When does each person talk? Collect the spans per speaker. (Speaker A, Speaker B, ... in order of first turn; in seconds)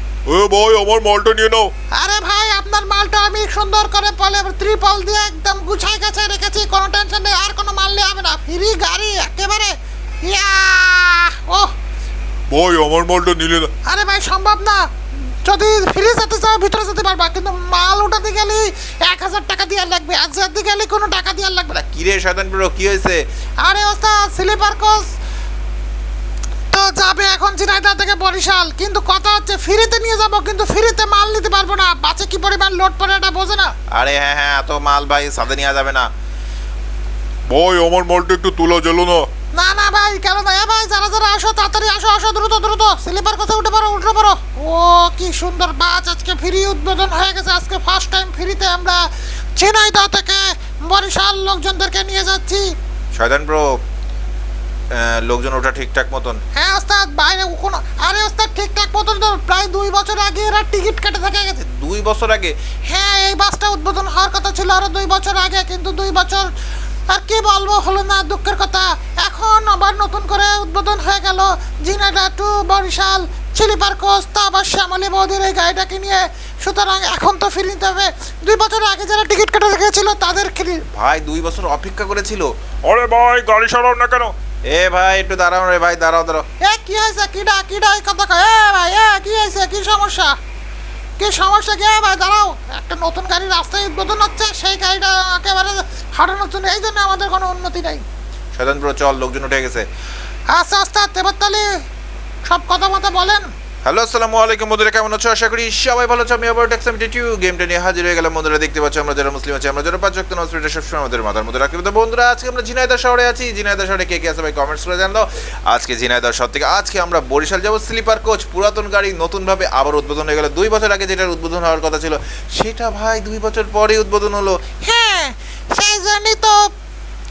Speaker A: 0.3-1.7, 12.5-13.7, 37.5-39.3, 82.8-84.3
Speaker B: 1.9-11.7, 13.8-14.9, 15.4-21.8, 23.6-25.1, 26.7-33.8, 39.5-52.7, 56.5-61.6, 62.9-66.5, 67.1-80.8, 86.6-90.4, 91.2-98.0, 100.5-101.8, 102.5-103.5, 124.8-126.7
Speaker C: 21.7-23.2, 33.9-36.1, 53.1-53.8, 54.9-56.4, 61.6-62.6, 80.9-82.5, 84.7-86.5, 98.5-99.9, 103.8-124.6